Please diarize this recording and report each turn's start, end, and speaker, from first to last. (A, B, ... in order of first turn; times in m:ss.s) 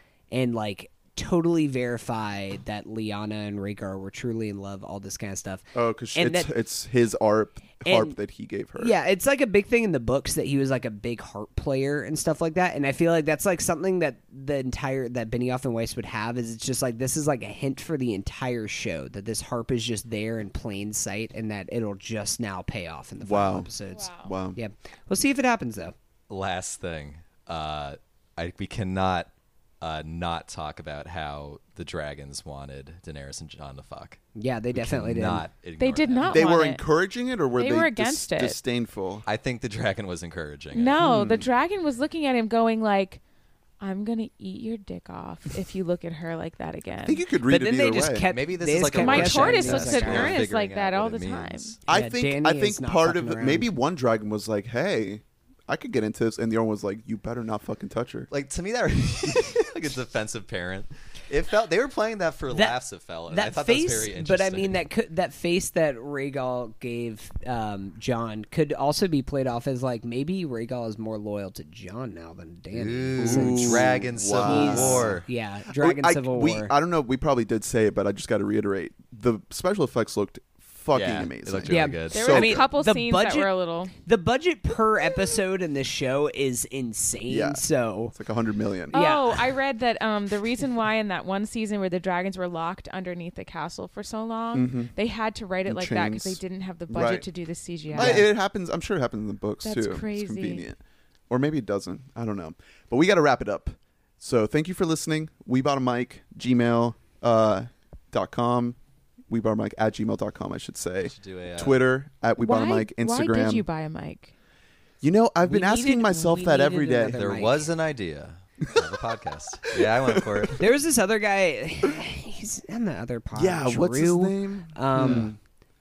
0:00.3-0:06.5 A
0:05.7-0:09.0 B
0:07.8-0:08.1 A
0:08.8-0:25.9 A
0:23.2-0:24.6 B
0:23.9-0:24.3 C
0:26.3-0:34.2 D
0:34.3-0:35.5 A
0:34.7-0:36.5 D
0:35.8-0:36.8 C
0:36.3-0:39.2 B
0:37.6-0:38.6 C
0:39.2-0:41.0 D
0:40.7-0:43.2 C
0:41.0-0:41.4 B
0:43.8-0:47.2 C
0:47.0-0:48.3 B
0:47.4-0:50.4 A
0:48.2-0:51.8 D
0:48.9-0:51.8 C
0:51.9-0:53.7 A
0:51.9-0:58.3 B
0:58.3-1:04.8 D
1:02.5-1:02.8 A
1:03.3-1:16.7 A
1:12.7-1:15.3 D
1:13.2-1:15.2 B
1:15.7-1:22.7 B
1:20.9-1:22.4 D
1:21.7-1:28.1 A
1:22.1-1:23.9 C
1:27.3-1:29.0 B
1:28.9-1:29.5 A
1:28.9-1:38.3 C
1:34.5-1:34.9 B
1:35.6-1:37.2 B
1:37.9-1:38.3 A
1:37.9-1:40.8 B
1:39.6-1:40.6 C
1:41.3-1:48.8 B
1:49.3-1:53.7 B
1:51.0-1:51.8 D
1:52.4-1:54.3 C
1:55.0-1:57.2 B
1:55.5-1:57.7 A
1:55.5-1:56.2 C
1:57.2-2:00.6 D
1:59.7-2:00.5 B
2:00.6-2:05.3 A
2:03.3-2:05.4 B